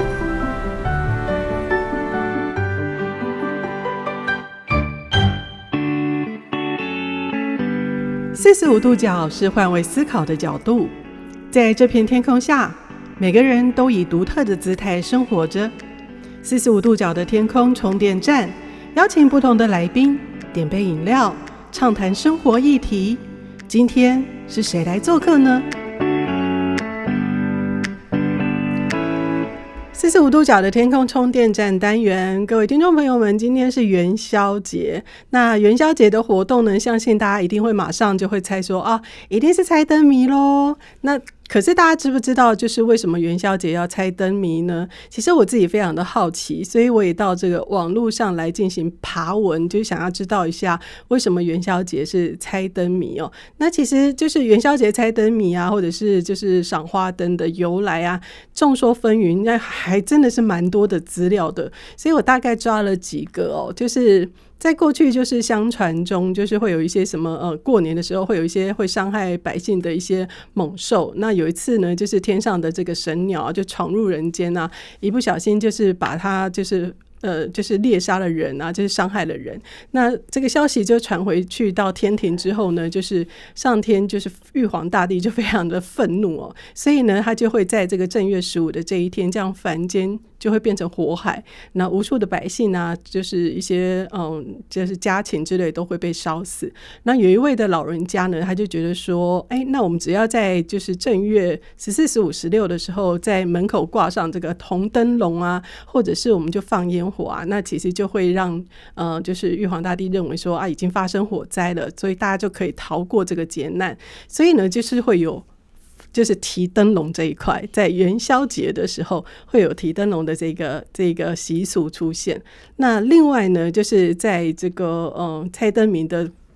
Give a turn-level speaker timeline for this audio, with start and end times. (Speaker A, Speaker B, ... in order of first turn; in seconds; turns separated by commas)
Speaker A: 8.3-10.9, Speaker A: 11.5-15.7, Speaker A: 16.4-25.7, Speaker A: 29.9-115.5, Speaker A: 116.1-126.3